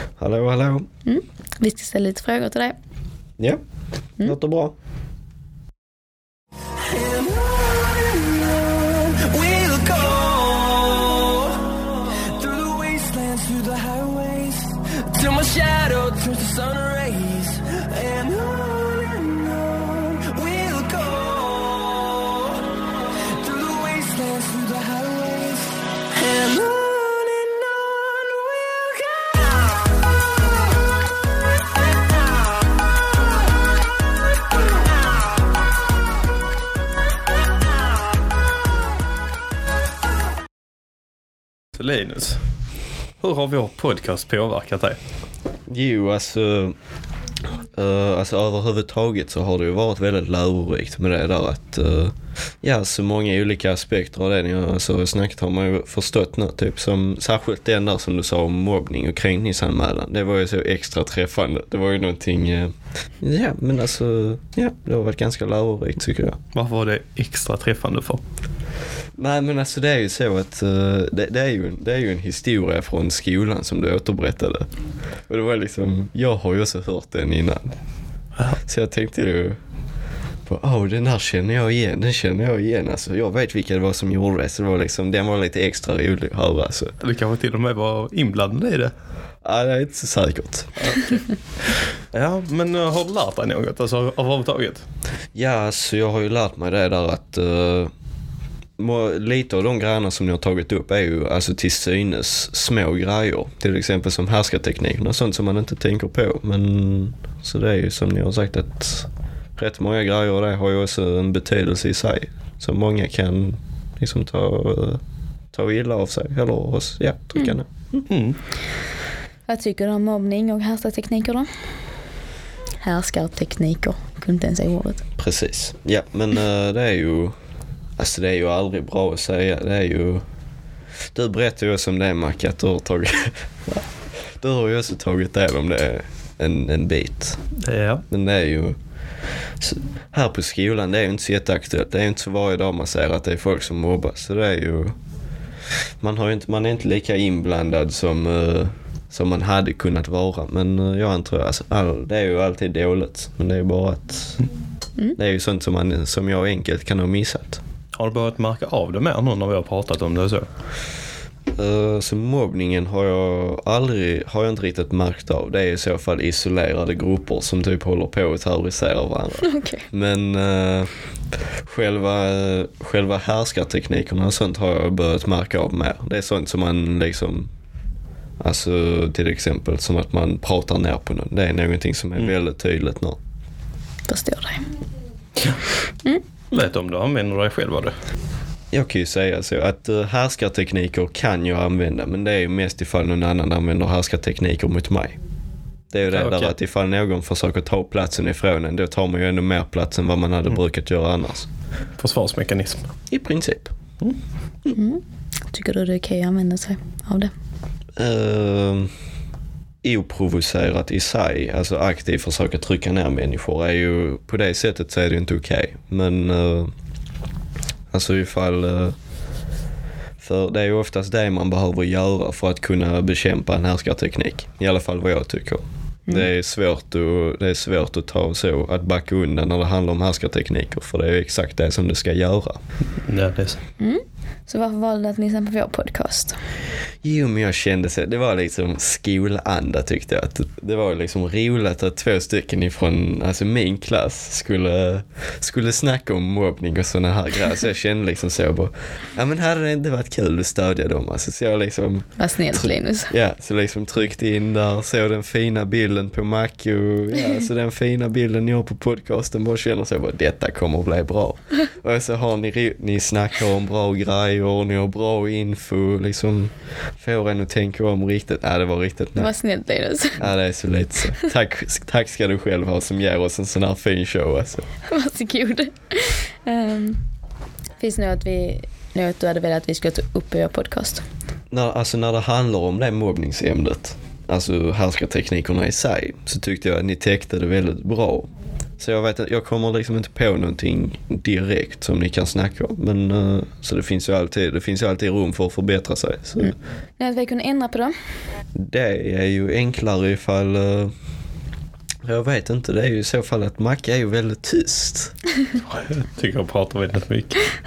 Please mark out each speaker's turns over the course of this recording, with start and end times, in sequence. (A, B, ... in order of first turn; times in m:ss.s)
0:00.2-0:00.9 A
0:01.1-0:02.8 B
0:04.2-0:04.8 A
0:06.8-0:30.0 C
0:41.8-0:42.4 D
0:43.2-0:45.0 D
0:45.7-0:46.8 A
0:47.7-1:06.4 A
1:06.5-1:08.2 D
1:09.2-1:14.7 A
1:15.3-1:17.8 A
1:18.6-1:19.6 A
1:20.5-1:26.9 A
1:27.0-1:28.9 D
1:29.4-1:30.9 A
1:30.8-1:34.8 D
1:35.4-1:37.9 A
1:38.8-1:55.0 A
1:55.5-1:58.1 A
1:58.1-1:58.4 D
1:59.5-2:01.5 B
2:02.8-2:05.0 B
2:05.2-2:07.3 A
2:08.0-2:10.2 A
2:11.1-2:17.4 A
2:17.6-2:18.0 D
2:18.1-2:18.8 A
2:19.6-2:25.0 A
2:26.0-2:34.4 A
2:35.2-2:37.6 A
2:38.0-2:40.5 D
2:41.5-2:50.9 A
2:49.4-2:49.8 B
2:51.5-2:57.5 A
2:58.4-3:03.2 A
3:04.1-3:04.7 B
3:05.4-3:05.6 D
3:06.5-3:08.0 D
3:08.7-3:15.2 A
3:15.9-3:21.5 A
3:16.1-3:16.5 D
3:22.0-3:22.9 D
3:23.1-3:23.7 A
3:24.7-3:27.3 B
3:28.0-3:28.9 A
3:29.8-3:36.7 A
3:37.9-3:39.0 A
3:40.2-3:52.6 A
3:53.0-3:53.6 D
3:53.8-3:56.4 B
3:57.0-4:29.3 A
4:12.2-4:13.1 B
4:29.2-4:30.3 B
4:30.2-4:34.7 A
4:34.9-4:37.0 B
4:37.8-4:41.0 B
4:41.5-4:56.5 A
4:56.4-4:58.0 B
4:58.6-5:00.9 A
5:02.0-5:05.2 A
5:05.6-5:07.6 D